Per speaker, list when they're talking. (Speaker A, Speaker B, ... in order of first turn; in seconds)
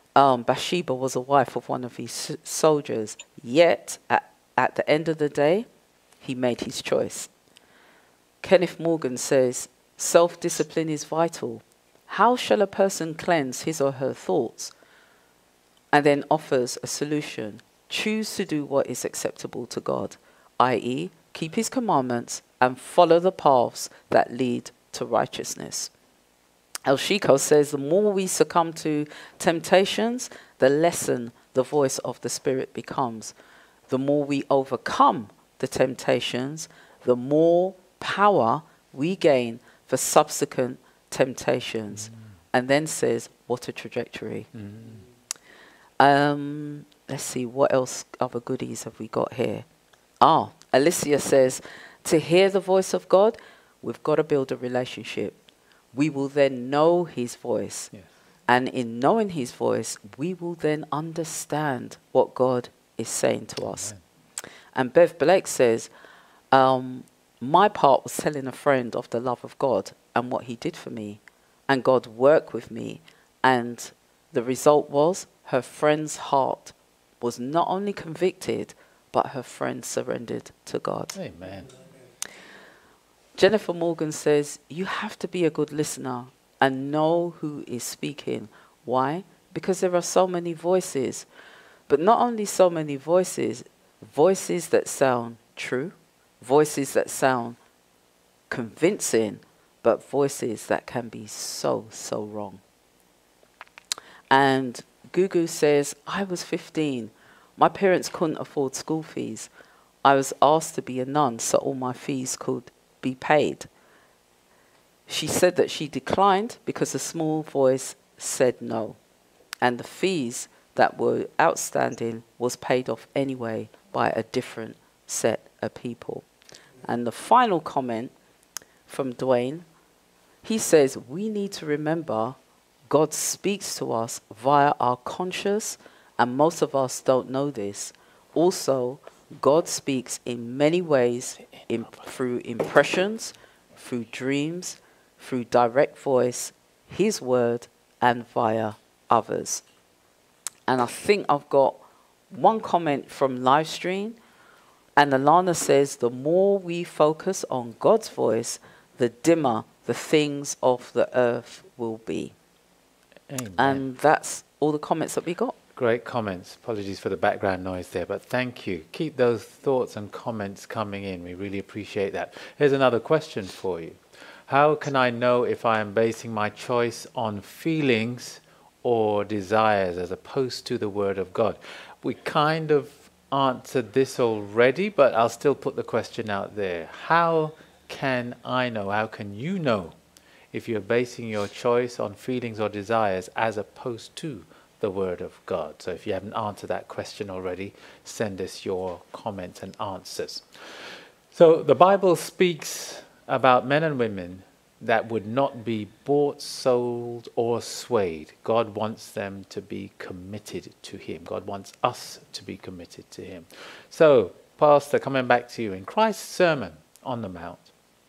Speaker A: 0.1-5.7, 6.2-7.3, 8.4-14.7, 15.9-25.9, 26.9-33.3, 33.9-44.5, 46.0-49.6, 50.2-55.4, 55.9-57.9, 58.5-63.9, 64.7-65.9, 66.5-81.2, 83.4-91.2, 91.9-97.6, 98.5-102.6, 104.3-109.5, 110.0-113.7, 115.1-119.0, 119.6-126.3, 126.8-128.1, 128.9-129.7, 130.4-132.4, 132.9-149.6, 150.7-151.8, 152.3-154.2, 155.0-162.3, 163.6-165.6
Speaker B: 44.5-45.0, 63.8-64.0, 81.1-81.7, 141.6-142.1, 163.3-163.8, 165.8-190.0, 190.5-200.4, 201.3-217.7